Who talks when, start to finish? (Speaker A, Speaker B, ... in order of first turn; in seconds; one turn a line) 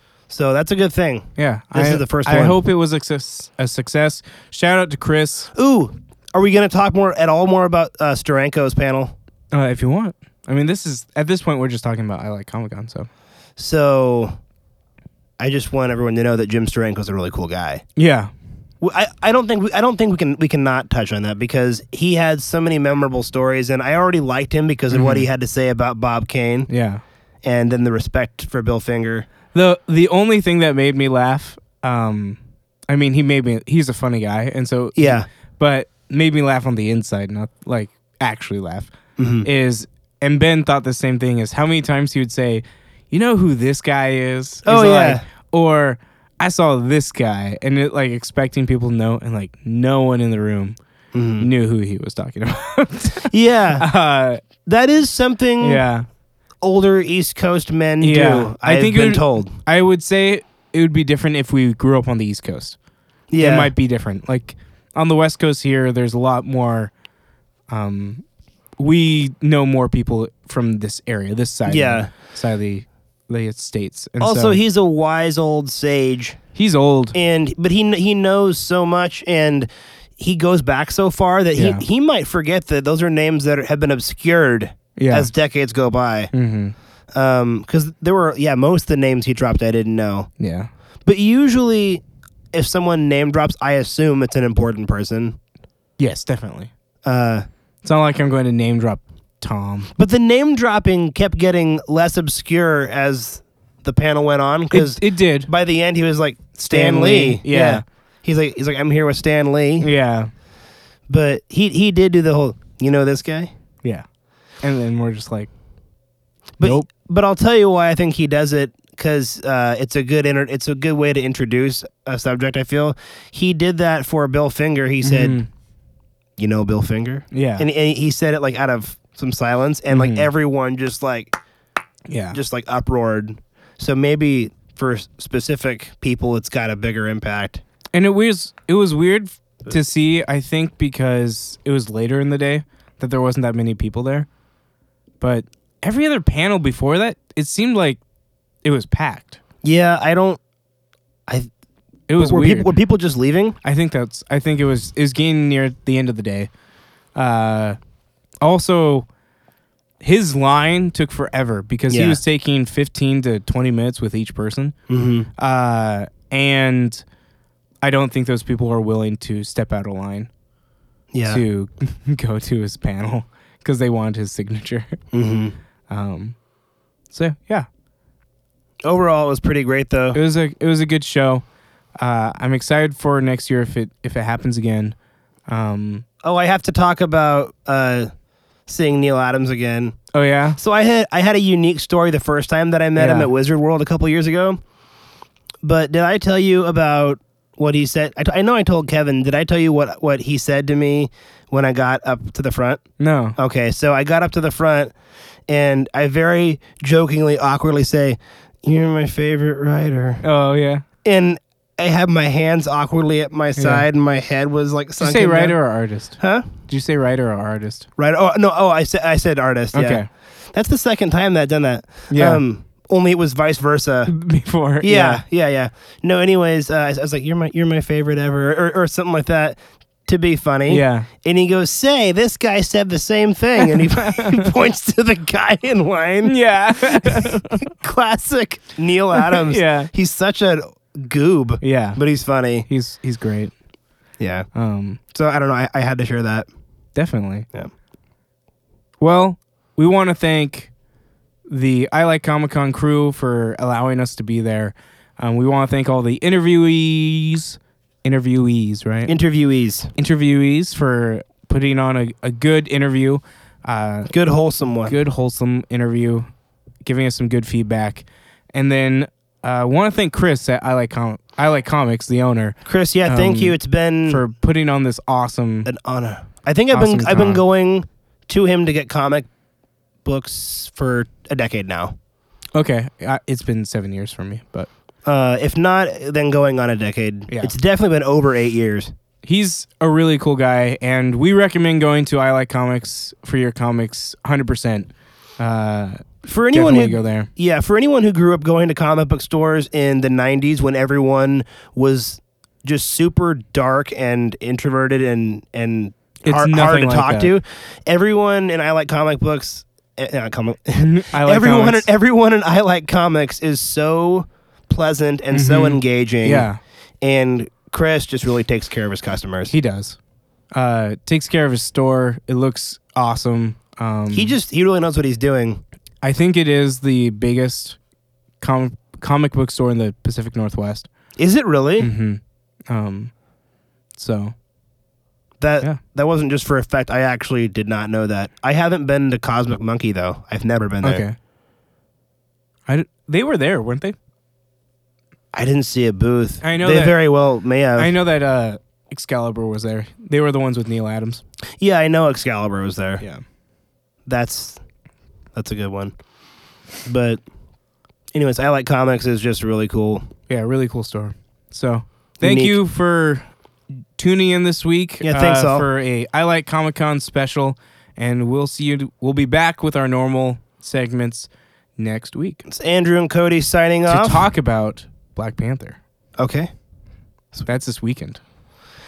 Speaker A: 0.3-2.6
Speaker B: 1.4-5.5
Speaker A: 5.5-9.1
Speaker B: 9.5-13.1
Speaker A: 13.6-14.4
Speaker A: 15.4-17.8
Speaker B: 18.0-18.3
Speaker A: 18.8-26.7
Speaker B: 24.9-25.2
Speaker B: 26.7-27.0
Speaker A: 27.4-29.3
Speaker B: 29.5-32.4
Speaker B: 32.9-38.9
Speaker A: 35.0-35.3
Speaker A: 39.2-39.5
Speaker B: 39.4-50.8
Speaker A: 44.6-45.2
Speaker A: 51.1-51.5
Speaker B: 51.4-54.4
Speaker A: 53.3-53.9
Speaker A: 54.6-55.8
Speaker B: 55.6-56.0
Speaker A: 56.6-59.5
Speaker B: 58.0-62.8
Speaker A: 63.3-63.7
Speaker B: 63.4-66.9
Speaker B: 67.7-68.2
Speaker B: 68.8-74.6
Speaker A: 71.6-72.1
Speaker A: 74.2-76.4
Speaker B: 76.5-77.2
Speaker A: 77.1-86.3
Speaker B: 81.5-81.8
Speaker B: 85.0-85.3
Speaker B: 86.3-86.7
Speaker A: 87.1-90.3
Speaker B: 90.4-90.7
Speaker A: 91.0-95.4
Speaker B: 96.0-96.7
Speaker A: 97.0-97.5
Speaker B: 97.8-99.9
Speaker A: 100.0-109.9
Speaker B: 104.7-105.5
Speaker B: 106.7-107.8
Speaker B: 109.8-110.3
Speaker A: 111.1-113.5
Speaker B: 114.6-115.5
Speaker A: 116.6-125.4
Speaker B: 116.6-116.9
Speaker B: 125.0-125.5
Speaker A: 126.4-131.4
Speaker B: 127.3-127.7
Speaker B: 129.9-130.3
Speaker B: 132.1-132.4
Speaker A: 132.3-137.6
Speaker B: 137.9-144.3
Speaker B: 145.2-148.0
Speaker B: 148.6-149.4
Speaker A: 149.6-150.4
Speaker B: 152.1-152.7
Speaker A: 152.2-153.6
Speaker B: 153.6-156.5
Speaker B: 157.2-157.8
Speaker B: 158.4-159.1
Speaker B: 160.0-164.7
Speaker A: 161.9-162.2
Speaker A: 164.9-165.3
Speaker B: 165.4-167.0
Speaker B: 167.8-170.3
Speaker A: 171.1-171.4
Speaker B: 171.3-174.9
Speaker A: 175.1-175.6
Speaker B: 175.9-176.3
Speaker B: 177.1-177.7
Speaker A: 178.8-180.2
Speaker B: 180.1-181.4
Speaker B: 182.0-184.9
Speaker B: 185.5-186.1
Speaker A: 186.2-188.1
Speaker A: 188.7-190.0
Speaker B: 190.1-190.6
Speaker A: 190.6-194.6
Speaker B: 192.9-193.3
Speaker A: 195.6-202.8
Speaker B: 203.0-203.4
Speaker A: 203.4-204.9
Speaker A: 205.5-210.2
Speaker B: 210.2-210.8
Speaker A: 211.0-215.6
Speaker B: 213.6-213.8
Speaker B: 215.0-217.9
Speaker A: 216.2-216.5
Speaker A: 218.0-224.1
Speaker B: 219.7-220.1
Speaker B: 222.1-222.4
Speaker B: 224.1-225.2
Speaker A: 224.8-242.7
Speaker B: 230.7-231.1
Speaker B: 233.8-234.5
Speaker B: 236.2-237.6
Speaker B: 239.2-239.9
Speaker B: 241.6-242.0
Speaker B: 242.7-243.5
Speaker A: 244.2-244.5
Speaker B: 244.5-245.0
Speaker A: 245.1-246.5
Speaker B: 246.9-247.5
Speaker B: 249.0-250.7
Speaker B: 251.5-259.1
Speaker A: 259.1-259.9
Speaker B: 260.0-264.1
Speaker A: 264.1-264.9
Speaker B: 264.8-266.3
Speaker B: 266.8-275.7
Speaker A: 272.6-274.2
Speaker A: 275.6-279.3
Speaker B: 276.7-277.4
Speaker A: 280.0-281.9
Speaker B: 282.5-284.7
Speaker A: 285.1-288.9
Speaker B: 287.3-287.5
Speaker B: 289.2-294.9
Speaker B: 295.4-297.3
Speaker A: 296.2-316.5
Speaker B: 306.2-307.3
Speaker B: 310.8-311.9
Speaker B: 315.3-316.6
Speaker A: 317.0-319.5
Speaker B: 319.5-320.0
Speaker B: 320.5-324.4
Speaker A: 324.1-325.6
Speaker B: 326.0-327.8
Speaker B: 328.4-330.9
Speaker A: 331.2-331.9
Speaker B: 331.8-333.1
Speaker B: 334.0-334.3
Speaker A: 335.4-341.0
Speaker B: 340.8-341.1
Speaker B: 342.7-343.9
Speaker A: 345.3-347.9
Speaker B: 346.4-347.0
Speaker B: 347.8-351.2
Speaker A: 351.6-353.0
Speaker A: 354.1-354.6
Speaker A: 355.3-355.9
Speaker A: 356.9-357.2
Speaker A: 358.1-360.1
Speaker B: 360.3-363.3
Speaker A: 362.2-362.6
Speaker B: 364.0-372.4
Speaker A: 365.0-365.7
Speaker A: 372.5-374.2
Speaker B: 373.9-375.8
Speaker A: 376.2-376.5
Speaker B: 377.4-378.2